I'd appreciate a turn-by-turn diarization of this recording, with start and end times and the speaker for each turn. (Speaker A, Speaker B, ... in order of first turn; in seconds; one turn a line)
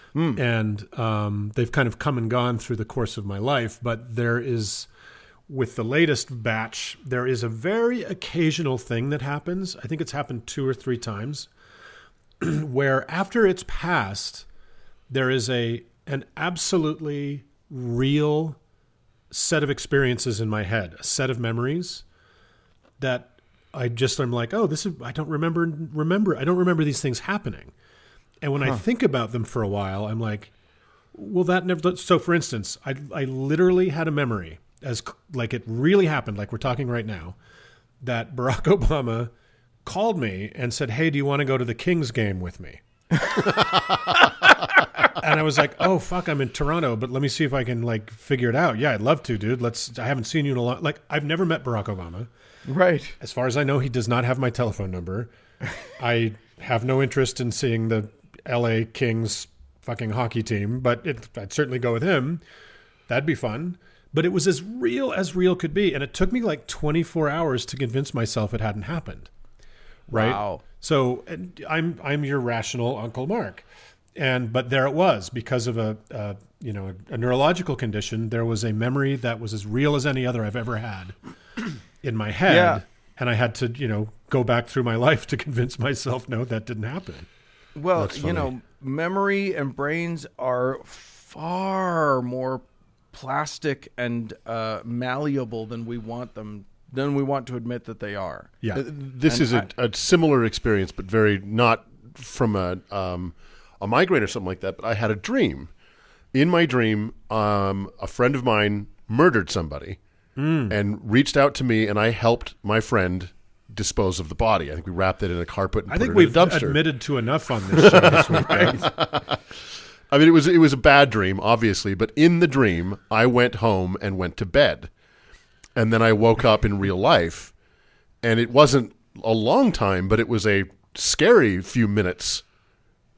Speaker A: 0.1-0.4
Speaker B: 0.3-4.9
Speaker B: 5.5-11.5
Speaker B: 12.4-14.4
Speaker B: 15.1-18.6
Speaker B: 19.3-22.0
Speaker B: 23.0-27.7
Speaker B: 28.4-30.5
Speaker B: 31.1-37.4
Speaker B: 38.0-39.3
Speaker B: 39.8-42.8
Speaker A: 43.1-43.5
Speaker B: 45.1-52.3
Speaker A: 52.6-53.1
Speaker B: 53.2-55.3
Speaker B: 55.9-62.4
Speaker B: 63.1-69.3
Speaker B: 70.1-81.2
Speaker A: 70.1-70.6
Speaker B: 82.0-87.3
Speaker A: 82.5-82.8
Speaker A: 87.8-98.6
Speaker B: 88.0-88.5
Speaker C: 98.7-105.7
Speaker A: 99.2-99.7
Speaker C: 106.3-110.0
Speaker B: 110.4-110.7
Speaker C: 110.7-116.8
Speaker B: 115.9-118.9
Speaker C: 117.7-119.4
Speaker A: 118.5-118.8
Speaker C: 120.1-124.9
Speaker C: 125.8-127.5
Speaker C: 128.2-132.4